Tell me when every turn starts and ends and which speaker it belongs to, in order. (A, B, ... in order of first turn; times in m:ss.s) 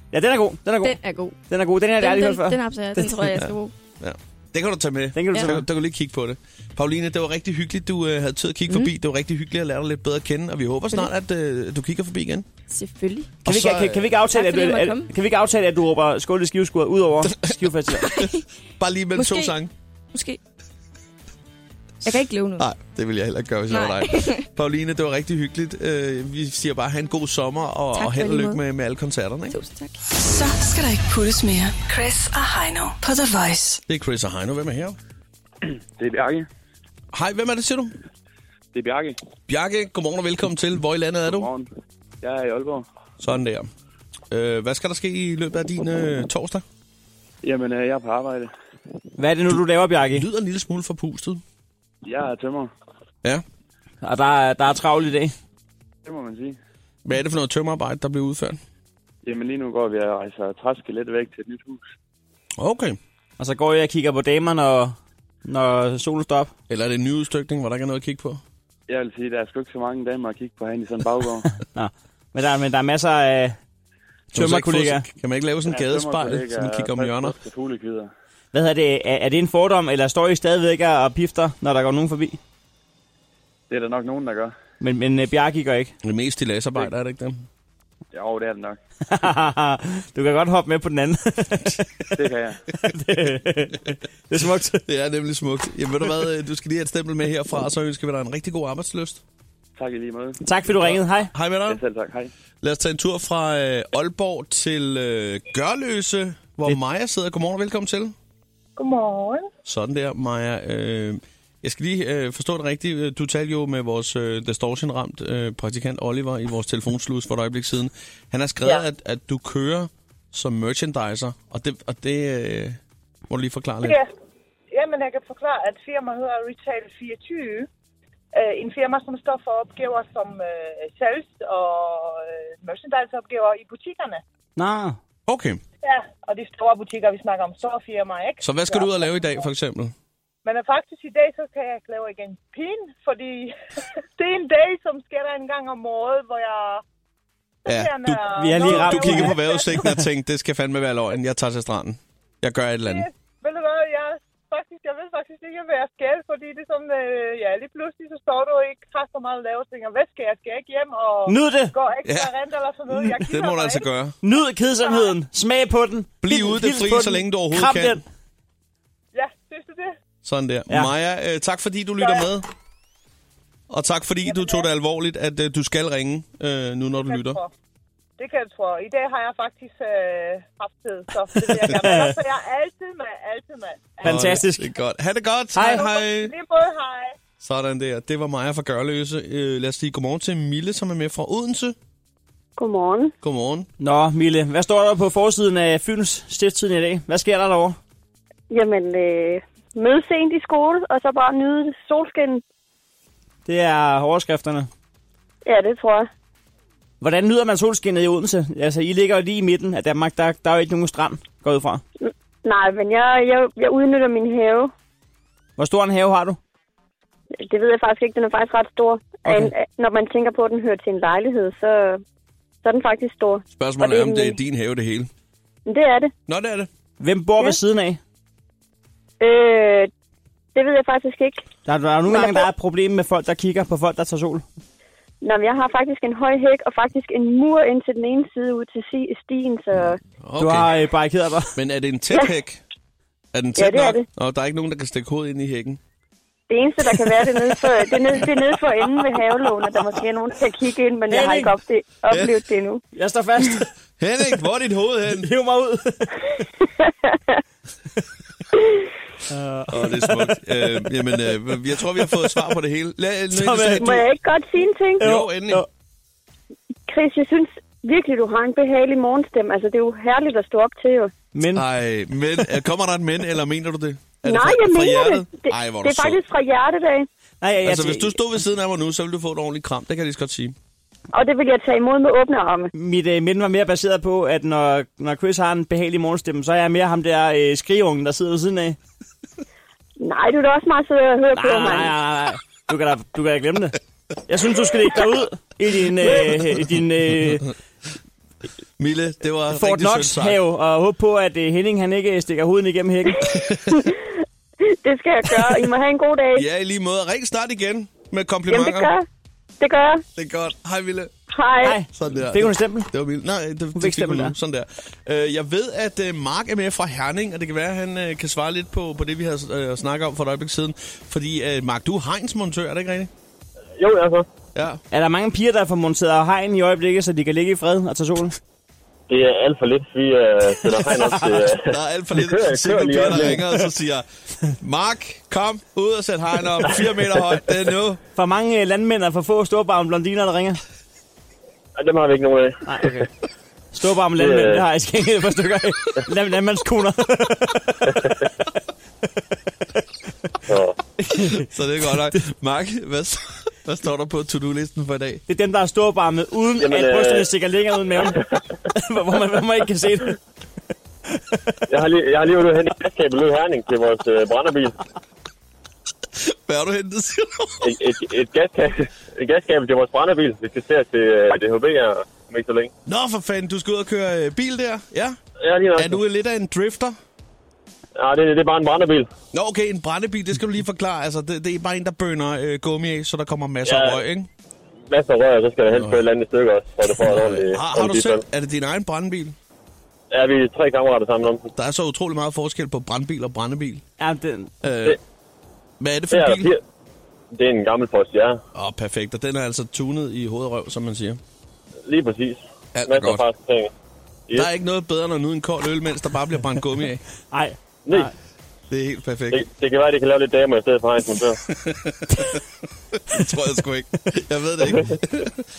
0:00.1-0:01.0 A
0:00.8-0:01.4 B
0:01.5-0:03.2 A
0:02.0-0:03.7 B
0:03.4-0:12.5 C
0:05.1-0:05.6 A
0:12.7-0:13.3 B
0:13.4-0:14.1 C
0:13.4-0:18.1 A
0:14.2-0:15.1 B
0:17.3-0:19.7 C
0:18.1-0:18.4 B
0:19.2-0:19.5 B
0:20.1-0:20.4 B
0:22.0-0:22.6 B
0:22.6-0:29.6 C
0:23.7-0:24.4 B
0:28.0-0:28.6 B
0:29.5-0:29.9 B
0:30.1-0:33.8 D
0:33.9-0:35.0 C
0:36.0-0:36.5 E
0:37.1-0:37.9 C
0:38.7-0:39.2 E
0:39.5-0:41.5 C
0:41.3-0:41.7 E
0:42.2-0:42.9 E
0:43.2-0:43.7 C
0:44.3-0:46.6 C
0:47.4-0:48.5 E
0:49.2-0:50.3 A
0:50.1-0:51.4 C
0:52.0-0:52.7 E
0:54.0-0:55.3 A
0:56.0-0:56.6 E
0:57.1-0:58.6 C
0:59.2-1:01.9 E
1:02.6-1:03.0 C
1:03.4-1:06.5 A
1:06.7-1:08.4 C
1:08.9-1:11.5 E
1:11.7-1:13.6 A
1:14.3-1:15.0 A
1:14.3-1:17.4 C
1:15.7-1:18.1 E
1:18.5-1:22.4 A
1:23.7-1:24.5 E
1:24.8-1:25.9 A
1:26.0-1:27.5 C
1:28.1-1:28.8 E
1:29.1-1:31.9 A
1:32.2-1:32.6 E
1:32.8-1:34.8 A
1:34.8-1:39.2 C
1:39.8-1:41.0 E
1:40.4-1:41.3 A
1:41.3-1:41.8 C
1:41.7-1:42.3 E
1:42.6-1:48.1 C
1:48.8-1:49.5 F
1:49.7-2:04.0 C
2:03.8-2:04.1 F
2:04.7-2:07.7 F
2:08.3-2:14.2 F
2:14.6-2:15.0 A
2:15.3-2:15.6 C
2:15.8-2:19.2 F
2:18.4-2:19.9 C
2:20.4-2:23.6 F
2:24.2-2:26.8 F
2:27.6-2:29.9 F
2:27.7-2:33.1 C
2:28.3-2:30.0 A
2:32.8-2:43.9 F
2:41.3-2:41.7 A
2:42.0-2:42.3 C
2:42.9-2:44.2 C
2:44.2-2:48.0 A
2:44.8-2:45.1 F
2:46.2-2:48.0 C
2:49.1-2:50.0 F
2:50.2-2:52.5 C
2:52.0-2:52.3 F
2:53.7-2:57.4 C
2:54.2-2:54.7 F
2:57.0-2:57.5 F
2:58.2-3:04.2 F
3:01.5-3:02.2 A
3:04.0-3:04.7 A
3:04.0-3:06.3 C
3:05.6-3:05.8 A
3:05.6-3:07.2 F
3:07.4-3:11.8 C
3:12.6-3:13.1 G
3:13.2-3:13.7 C
3:13.8-3:17.8 A
3:18.5-3:22.4 G
3:23.5-3:24.7 A
3:25.4-3:26.1 G
3:27.0-3:31.8 A
3:32.0-3:34.7 G
3:35.6-3:36.4 A
3:37.4-3:42.0 G
3:39.2-3:39.5 A
3:42.6-3:44.4 G
3:43.5-3:45.1 C
3:45.7-3:46.1 G
3:46.3-3:46.7 C
3:47.0-3:48.0 A
3:49.2-3:49.9 G
3:50.6-3:51.4 G
3:51.7-3:54.4 A
3:52.1-3:52.5 G
3:55.2-4:00.0 G
4:00.2-4:00.7 C
4:00.4-4:01.5 A
4:01.6-4:02.6 C
4:03.3-4:05.8 C
4:03.6-4:04.0 G
4:06.5-4:12.8 G
4:11.1-4:11.5 A
4:12.1-4:12.4 C
4:12.9-4:13.7 A
4:14.0-4:15.3 C
4:15.2-4:16.2 A
4:19.3-4:20.3 A
4:19.7-4:24.1 C
4:23.3-4:23.9 A
4:23.8-4:25.0 G
4:25.0-4:25.6 C
4:25.0-4:25.7 A
4:26.9-4:31.1 G
4:31.4-4:31.6 A
4:31.5-4:36.2 C
4:34.2-4:37.1 G
4:37.4-4:38.2 A
4:37.6-4:40.6 C
4:41.1-4:42.7 G
4:42.7-4:48.8 A
4:50.0-4:51.9 G
4:51.3-4:53.8 A
4:54.3-4:57.5 A
4:58.8-5:00.4 C
4:59.5-5:03.4 A
5:03.3-5:03.8 C
5:03.7-5:04.1 G
5:04.7-5:06.4 G
5:06.4-5:08.9 C
5:08.5-5:09.1 G
5:09.6-5:10.0 G
5:10.2-5:11.1 C
5:11.3-5:11.8 G
5:11.6-5:12.9 A
5:11.9-5:23.1 C
5:13.8-5:14.4 A
5:23.8-5:24.3 H
5:24.6-5:24.8 C
5:24.9-5:28.4 A
5:29.1-5:33.4 H
5:30.6-5:31.4 A
5:31.7-5:34.0 C
5:34.6-5:38.0 C
5:38.2-5:40.6 A
5:41.8-5:43.0 H
5:42.6-5:43.1 A
5:43.7-5:48.1 A
5:44.2-5:44.6 H
5:50.5-5:50.8 H
5:51.1-5:51.4 A
5:51.3-5:55.2 C
5:55.3-5:58.2 A
5:56.6-5:57.3 H
5:58.7-6:00.2 A
6:01.7-6:04.8 H
6:06.2-6:07.6 C
6:07.6-6:12.7 H
6:12.9-6:15.2 C
6:15.4-6:16.0 H
6:15.8-6:17.0 C
6:18.0-6:19.1 H
6:19.3-6:24.3 C
6:23.6-6:24.0 H
6:24.9-6:28.2 H
6:25.7-6:26.1 C
6:26.9-6:29.4 C
6:30.1-6:31.5 H
6:31.5-6:33.8 C
6:34.0-6:34.5 A
6:34.6-6:35.0 C
6:35.8-6:36.5 C
6:36.1-6:36.6 H
6:37.3-6:38.4 H
6:38.5-6:41.2 C
6:41.9-6:43.7 H
6:42.8-6:43.2 C
6:44.3-6:47.0 C
6:47.3-6:48.1 A
6:48.7-6:49.4 C
6:49.3-6:51.4 H
6:51.5-6:52.4 C
6:53.1-6:55.3 C